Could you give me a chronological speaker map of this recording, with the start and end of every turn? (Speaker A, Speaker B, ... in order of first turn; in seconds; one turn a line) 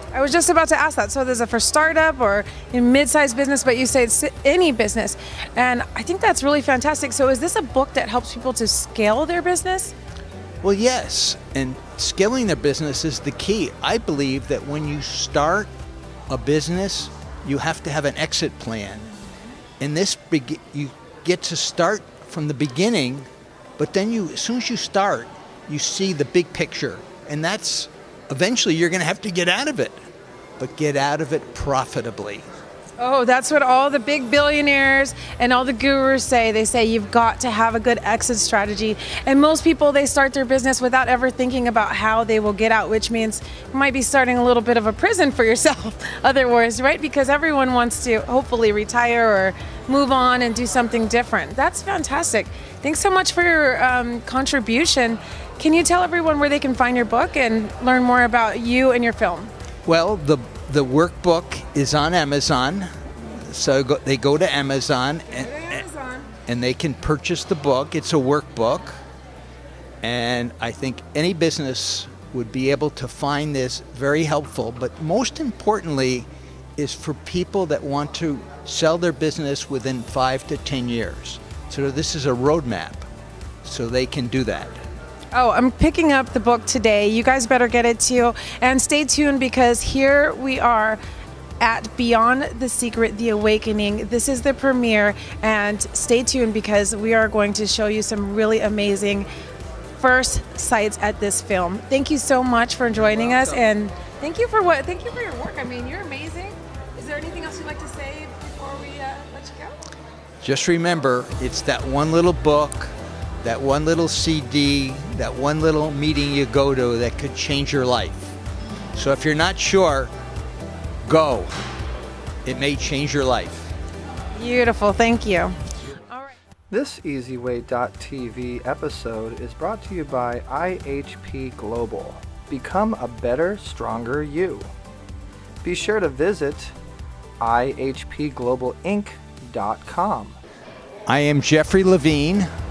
Speaker A: 0.1-9.9
Speaker B: 10.6-15.7
Speaker B: 16.3-19.1
Speaker B: 19.8-29.9
Speaker B: 30.6-32.4
Speaker A: 33.0-59.5
Speaker B: 59.9-65.9
Speaker A: 65.6-66.2
Speaker B: 66.5-69.0
Speaker B: 70.0-83.1
Speaker B: 83.6-84.8
Speaker A: 85.3-91.0
Speaker A: 91.6-99.3
Speaker A: 100.0-109.9
Speaker B: 110.4-118.3
Speaker B: 118.9-120.1
Speaker B: 121.1-121.5
Speaker B: 122.5-123.7
Speaker A: 124.3-125.6
Speaker C: 126.7-134.7
Speaker C: 135.6-136.8
Speaker C: 137.4-140.4
Speaker B: 141.1-142.5